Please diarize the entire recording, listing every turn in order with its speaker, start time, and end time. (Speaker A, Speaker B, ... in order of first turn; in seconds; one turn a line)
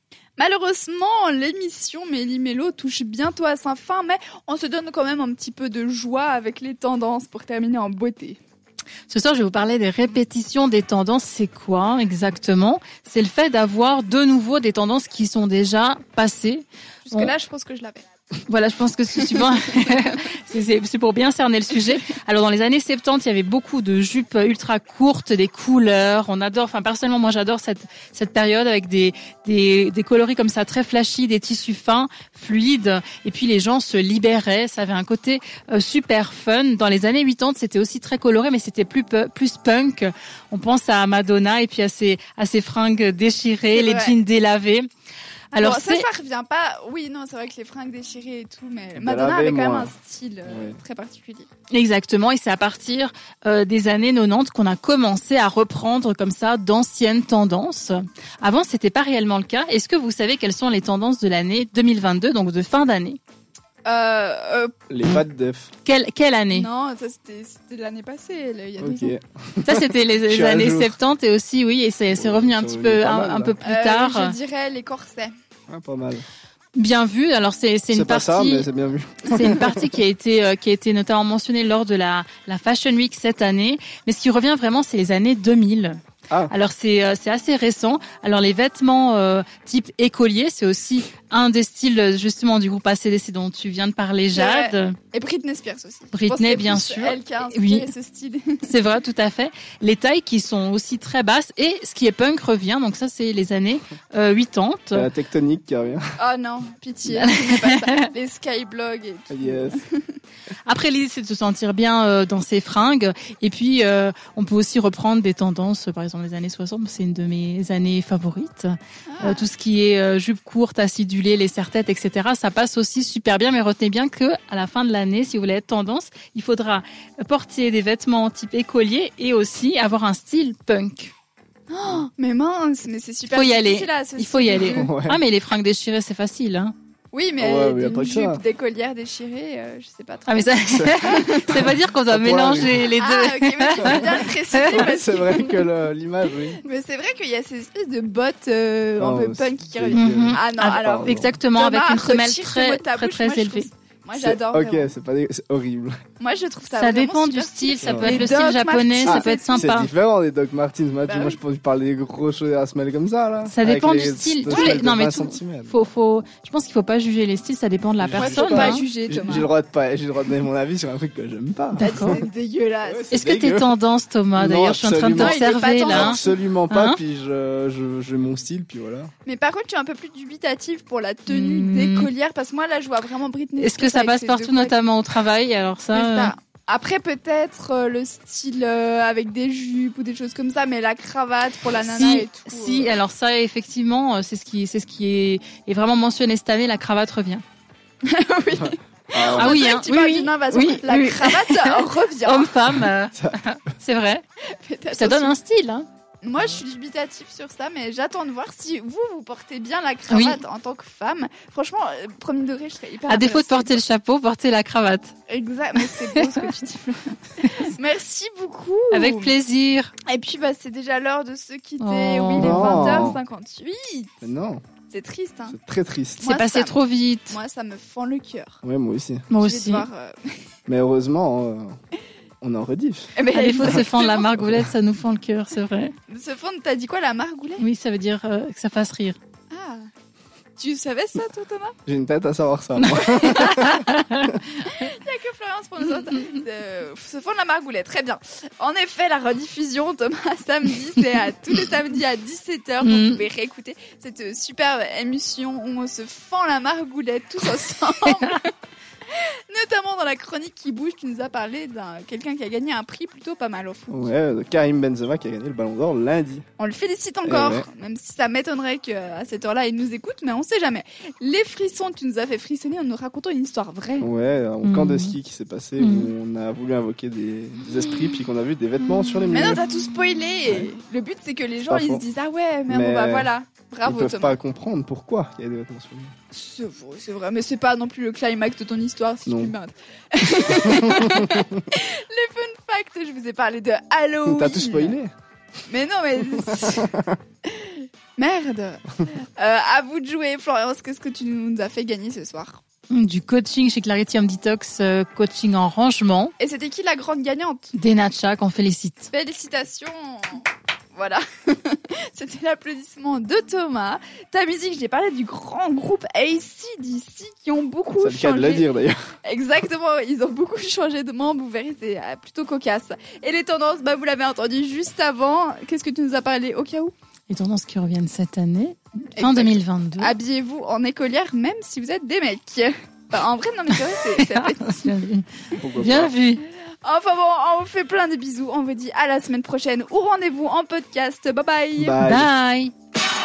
Speaker A: 0.4-8.4
Speaker B: 9.1-17.3
Speaker A: 17.1-18.1
Speaker B: 18.5-44.9
Speaker A: 43.7-44.2
Speaker B: 45.5-46.0
Speaker A: 45.5-51.5
Speaker C: 49.0-49.9
Speaker C: 50.5-50.8
Speaker B: 51.7-63.2
Speaker A: 63.9-64.7
Speaker C: 64.9-65.7
Speaker B: 65.8-66.7
Speaker A: 66.5-69.2
Speaker C: 68.8-71.0
Speaker B: 69.6-74.3
Speaker C: 72.1-73.6
Speaker A: 73.6-75.3
Speaker C: 75.7-76.2
Speaker B: 76.8-78.7
Speaker C: 77.9-79.9
Speaker B: 79.2-95.0
Speaker A: 94.3-98.7
Speaker B: 96.1-97.9
Speaker B: 98.6-105.1
Speaker C: 104.9-106.1
Speaker A: 106.2-110.2
Speaker B: 107.1-108.1
Speaker C: 109.3-109.8
Speaker B: 110.7-131.1
Speaker A: 119.1-119.5
Speaker A: 131.7-134.9
Speaker B: 133.3-136.7
Speaker C: 134.7-135.2
Speaker A: 137.1-141.7
Speaker C: 137.4-138.4
Speaker B: 140.3-144.9
Speaker C: 140.7-142.9
Speaker A: 142.9-145.6
Speaker C: 143.8-146.6
Speaker A: 146.6-155.0
Speaker C: 149.0-151.4
Speaker B: 149.9-153.7
Speaker C: 154.1-156.0
Speaker A: 156.2-159.7
Speaker B: 156.7-159.9
Speaker C: 157.8-158.2
Speaker C: 159.1-165.9
Speaker A: 161.1-161.4
Speaker B: 163.4-168.8
Speaker A: 164.5-164.8
Speaker C: 168.0-172.2
Speaker A: 168.2-169.5
Speaker B: 171.8-172.2
Speaker A: 171.8-173.1
Speaker C: 172.8-173.7
Speaker B: 173.1-177.0
Speaker C: 174.4-179.1
Speaker A: 175.1-176.4
Speaker A: 179.2-184.8
Speaker B: 181.3-182.1
Speaker B: 183.6-186.3
Speaker A: 185.9-193.0
Speaker B: 191.8-197.4
Speaker A: 198.0-202.6
Speaker C: 199.1-199.6
Speaker B: 199.2-204.2
Speaker C: 203.1-203.4
Speaker A: 204.6-205.4
Speaker B: 204.9-205.9
Speaker A: 206.2-213.8
Speaker B: 210.1-210.4
Speaker B: 213.1-215.1
Speaker A: 215.3-219.3
Speaker B: 216.1-216.4
Speaker B: 218.9-219.9
Speaker A: 220.1-224.1
Speaker B: 221.8-223.1
Speaker C: 222.4-223.2
Speaker C: 224.2-224.7
Speaker A: 224.9-225.6
Speaker C: 225.5-226.3
Speaker A: 226.2-226.8
Speaker B: 226.2-227.4
Speaker A: 227.3-228.6
Speaker C: 228.6-229.3
Speaker B: 229.3-229.8
Speaker A: 229.4-230.4
Speaker C: 230.7-231.8
Speaker C: 232.4-233.8
Speaker A: 233.2-234.4
Speaker B: 233.3-235.9
Speaker C: 234.4-234.7
Speaker A: 236.1-237.7
Speaker B: 237.6-239.2
Speaker A: 239.5-239.9
Speaker A: 240.6-241.8
Speaker C: 241.9-244.4
Speaker A: 242.8-243.7
Speaker B: 242.9-244.7
Speaker A: 244.5-258.5
Speaker B: 252.8-253.2
Speaker A: 259.1-263.9
Speaker C: 263.9-266.4
Speaker A: 266.6-274.1
Speaker C: 267.2-267.7
Speaker C: 274.0-279.6
Speaker B: 274.6-275.2
Speaker B: 275.8-276.1
Speaker B: 279.1-279.8
Speaker A: 279.3-284.4
Speaker C: 281.7-282.0
Speaker C: 282.7-283.3
Speaker C: 283.8-286.1
Speaker A: 286.3-295.0
Speaker C: 289.3-289.5
Speaker C: 290.6-291.5
Speaker C: 294.3-295.1
Speaker A: 295.7-296.9
Speaker C: 296.7-297.2
Speaker A: 297.5-302.6
Speaker B: 302.9-306.3
Speaker A: 306.4-307.7
Speaker B: 307.8-309.1
Speaker A: 309.1-318.7
Speaker C: 318.0-319.0
Speaker A: 319.2-326.9
Speaker B: 327.3-330.1
Speaker A: 329.2-334.9
Speaker B: 333.7-336.4
Speaker C: 335.6-336.2
Speaker A: 336.8-342.0
Speaker C: 341.8-342.3
Speaker B: 342.0-342.7